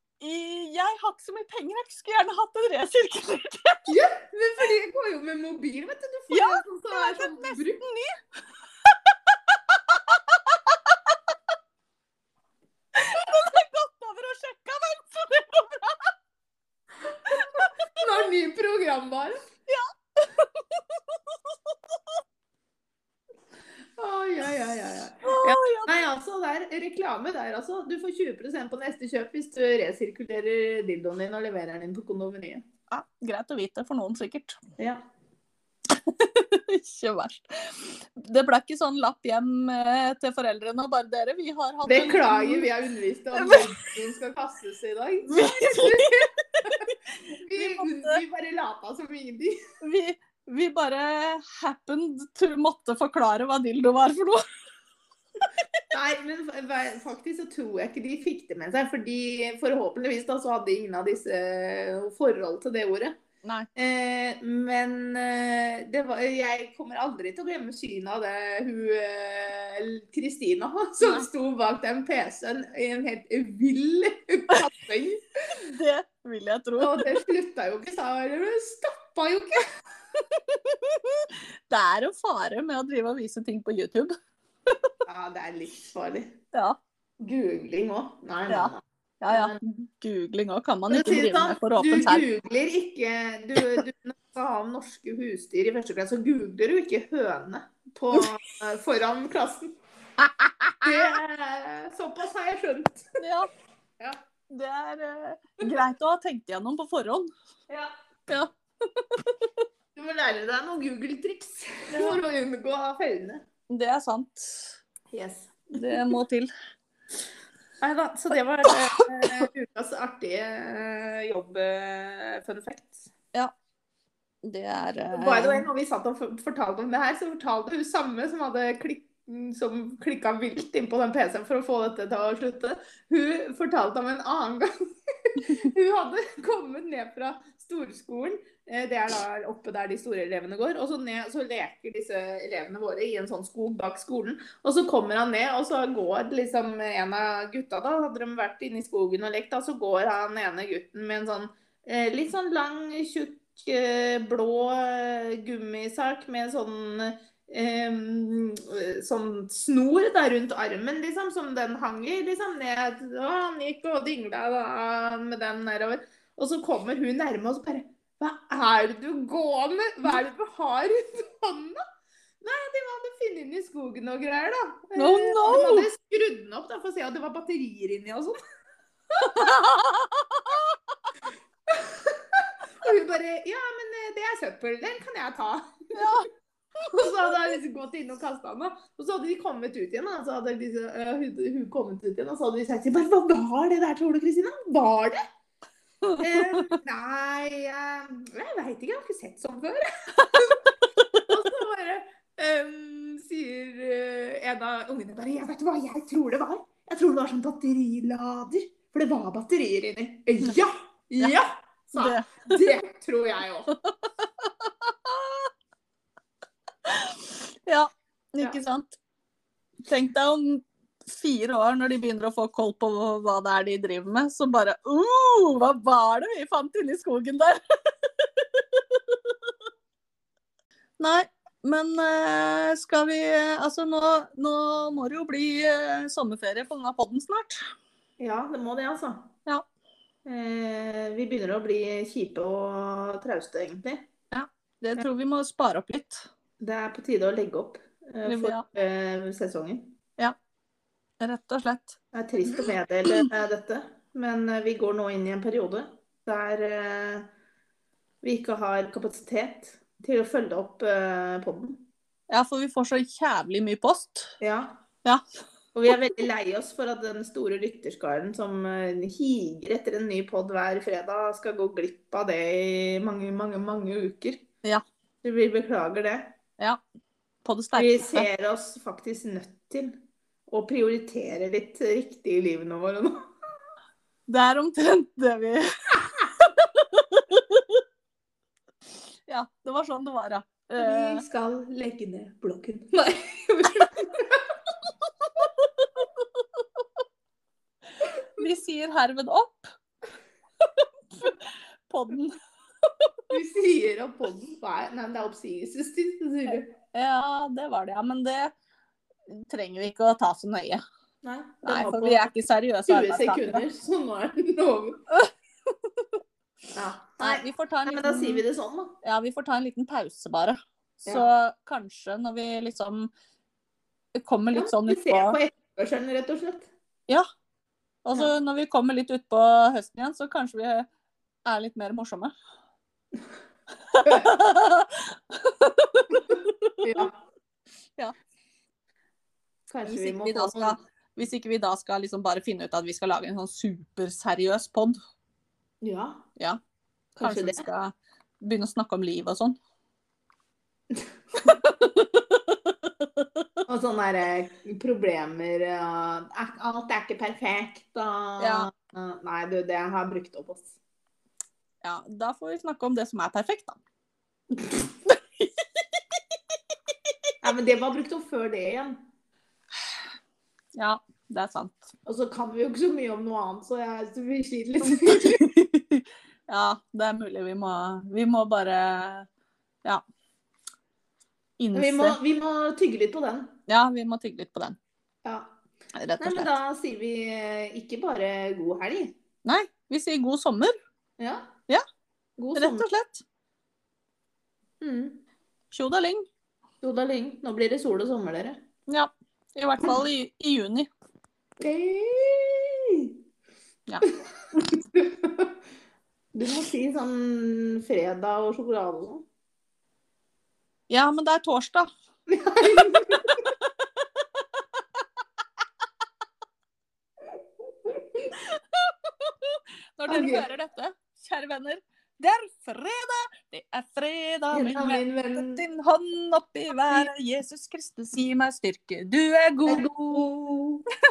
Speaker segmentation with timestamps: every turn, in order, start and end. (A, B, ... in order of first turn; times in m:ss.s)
0:00.2-0:03.9 A
0:03.9-0:07.8 B
0:06.3-0:08.1 A
0:10.5-0:10.9 A
0:12.9-0:16.1 A
0:17.2-0:18.0 A
0:18.0-0:19.4 B
0:19.7-0:22.2 A
0:24.0-0:32.7 B
0:25.2-0:26.0 A
0:32.9-0:34.6 A
0:34.8-0:35.0 B
0:35.9-0:42.7 A
0:41.9-0:49.6 B
0:43.3-0:43.8 A
0:45.3-0:46.9 A
0:47.5-0:48.2 A
0:49.8-0:54.4 A
0:55.4-0:55.7 A
0:55.9-1:03.2 B
1:03.7-1:15.6 B
1:15.5-1:17.1 A
1:16.8-1:19.6 B
1:20.3-1:24.1 A
1:25.0-1:26.3 B
1:26.5-1:26.8 A
1:27.2-1:29.6 B
1:28.5-1:32.2 A
1:30.9-1:39.7 B
1:40.2-1:41.0 A
1:40.8-1:43.0 B
1:43.2-1:43.5 A
1:44.5-1:47.3 A
1:48.3-1:49.5 A
1:49.9-1:53.4 B
1:51.9-1:52.2 A
1:53.7-1:54.8 A
1:55.1-1:56.2 B
1:55.7-1:56.5 A
1:57.8-2:03.1 B
1:58.7-1:59.5 A
2:04.4-2:05.6 A
2:05.1-2:14.7 B
2:15.2-2:51.8 B
2:52.4-2:58.4 B
2:55.0-2:55.9 A
2:59.2-3:00.8 A
3:01.7-3:06.1 B
3:05.9-3:06.3 A
3:06.8-3:07.1 A
3:06.9-3:15.2 B
3:16.0-3:16.8 A
3:16.2-3:33.7 B
3:32.0-3:32.7 A
3:33.8-3:35.5 A
3:36.8-3:39.0 A
3:39.9-3:49.5 A
3:51.0-3:57.6 A
3:58.2-3:59.3 B
4:00.2-4:04.0 B
4:04.3-4:06.2 A
4:06.6-4:09.9 B
4:08.2-4:08.6 A
4:11.2-4:12.0 A
4:12.1-4:17.3 B
4:18.2-4:21.8 B
4:22.3-4:24.3 A
4:24.4-4:24.8 B
4:25.7-4:34.4 B
4:35.2-4:36.4 B
4:37.4-4:38.3 A
4:37.7-4:43.3 B
4:44.3-4:47.8 A
4:49.3-4:51.2 A
4:50.8-4:54.6 B
4:58.0-4:59.7 A
5:01.1-5:02.4 A
5:03.3-5:06.8 B
5:06.9-5:08.5 A
5:09.3-5:10.8 A
5:11.2-5:12.3 B
5:11.6-5:13.6 A
5:12.8-5:15.0 B
5:15.1-5:16.1 A
5:16.7-5:18.9 B
5:17.2-5:18.4 A
5:19.0-5:23.1 A
5:24.1-5:25.4 A
5:24.5-5:26.7 B
5:28.0-5:30.9 A
5:31.4-5:32.3 A
5:33.8-5:37.1 A
5:36.8-5:37.1 B
5:39.7-5:40.8 B
5:39.8-5:45.0 A
5:45.8-5:46.2 B
5:47.2-5:47.6 B
5:47.2-5:49.6 A
5:50.9-5:51.5 B
5:51.3-5:53.5 A
5:53.7-6:00.7 B
5:58.4-5:58.7 A
6:01.8-6:03.8 A
6:05.0-6:06.0 A
6:07.4-6:09.0 B
6:10.8-6:11.9 A
6:12.0-6:15.4 B
6:14.8-6:19.3 A
6:21.6-6:22.2 A
6:21.7-6:23.6 B
6:23.7-6:24.8 A
6:25.2-6:25.5 B
6:26.0-6:26.5 A
6:26.2-6:29.1 B
6:29.4-6:30.8 A
6:31.2-6:31.5 B
6:32.4-6:32.9 B
6:32.5-6:33.2 A
6:34.8-6:35.2 B
6:35.7-6:36.3 A
6:36.8-6:38.6 B
6:38.9-6:40.9 A
6:41.6-6:43.1 B
6:44.0-6:45.6 B
6:46.3-6:49.2 B
6:50.9-6:51.9 A
6:52.3-6:53.4 B
6:57.8-6:58.3 B
6:58.3-7:10.3 A
7:00.1-7:00.5 B
7:04.5-7:05.6 B
7:09.6-7:10.8 B